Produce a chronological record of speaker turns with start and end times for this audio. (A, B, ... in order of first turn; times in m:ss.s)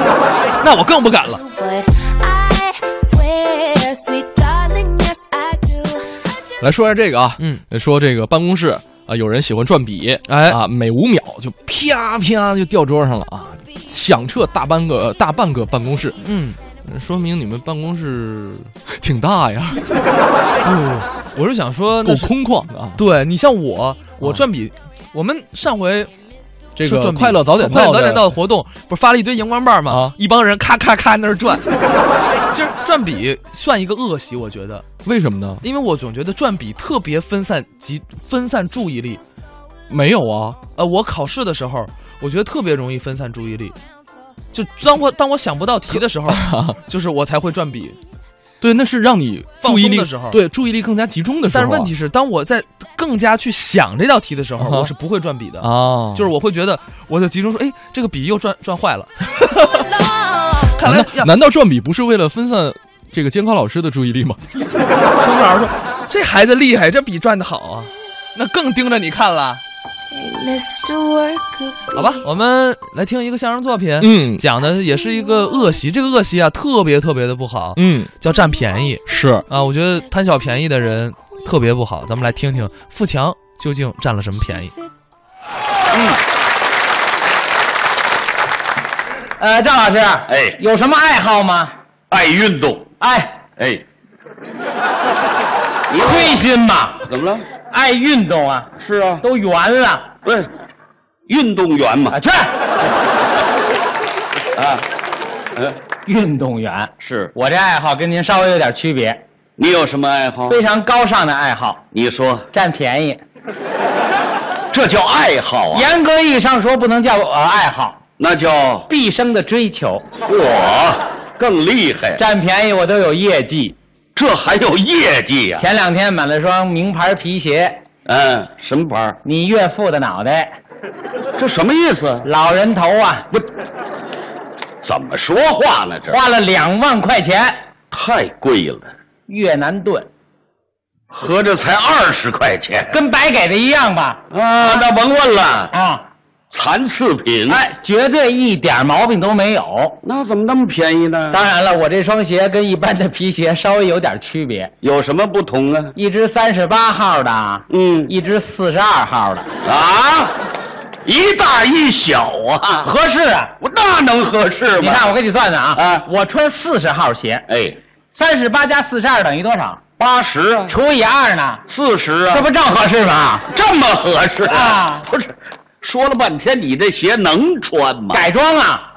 0:00.6-0:01.4 A
0:01.4-0:06.3 B
0:06.6-0:16.3 C
0:10.3-0:10.6 A
0:16.2-0:16.6 A
0:16.8-0:19.8 C
0:20.6-0:22.3 A
0:22.0-0:23.0 C
0:23.0-0:26.1 A
0:24.2-0:24.4 C
0:26.8-0:28.4 C
0:26.8-0:31.6 A
0:29.9-0:30.1 C
0:32.5-0:34.8 A
0:35.0-0:35.6 C
0:35.6-0:39.2 A
0:39.9-0:40.6 C
0:40.8-0:43.8 A
0:44.5-0:48.0 A
0:45.9-0:46.8 C
0:48.6-0:51.9 C
0:49.6-0:50.4 A
0:51.5-0:59.8 A
0:54.6-0:54.9 C
0:55.6-0:56.3 C
0:59.7-1:00.8 B
1:00.8-1:01.3 A
1:00.8-1:04.4 C
1:05.2-1:09.6 A
1:10.1-1:12.2 B
1:11.9-1:24.7 A
1:14.0-1:14.4 C
1:17.8-1:18.1 C
1:19.1-1:19.4 C
1:29.4-1:31.7 D
1:30.3-1:30.6 E
1:32.1-1:32.9 E
1:33.0-1:33.4 D
1:33.6-1:33.8 E
1:35.9-1:36.4 E
1:36.0-1:37.0 D
1:37.0-1:37.4 E
1:37.7-1:38.7 D
1:38.8-1:39.2 E
1:39.2-1:40.1 D
1:41.3-1:42.1 E
1:42.1-1:42.5 D
1:44.6-1:44.8 E
1:46.0-1:49.2 D
1:47.0-1:47.3 E
1:49.6-1:50.6 E
1:50.5-1:51.8 D
1:51.9-1:52.5 E
1:52.5-1:53.2 D
1:54.7-1:55.9 E
1:55.7-1:58.0 D
1:58.2-1:58.9 E
1:58.9-2:00.0 D
2:00.2-2:02.2 E
2:02.2-2:03.8 D
2:04.1-2:05.6 E
2:05.6-2:07.8 D
2:08.0-2:09.2 E
2:09.2-2:10.5 D
2:11.4-2:12.2 E
2:12.2-2:13.3 D
2:14.8-2:16.2 E
2:16.1-2:17.6 D
2:17.9-2:18.9 E
2:19.3-2:20.1 D
2:21.1-2:22.9 E
2:22.9-2:24.2 D
2:24.3-2:25.7 E
2:25.7-2:26.0 D
2:26.5-2:27.6 E
2:27.5-2:30.0 D
2:30.0-2:31.4 E
2:31.3-2:34.7 D
2:34.8-2:35.9 E
2:36.0-2:39.5 D
2:37.7-2:38.1 E
2:39.6-2:40.4 E
2:41.0-2:42.9 E
2:42.8-2:43.5 D
2:43.6-2:45.1 E
2:44.8-2:47.4 D
2:45.8-2:46.0 E
2:47.5-2:47.8 E
2:48.1-2:49.9 D
2:50.0-2:50.7 E
2:50.7-2:51.6 D
2:51.7-2:52.5 E
2:52.3-2:53.5 D
2:53.5-2:58.3 E
2:54.5-2:55.1 D
2:58.1-2:58.8 D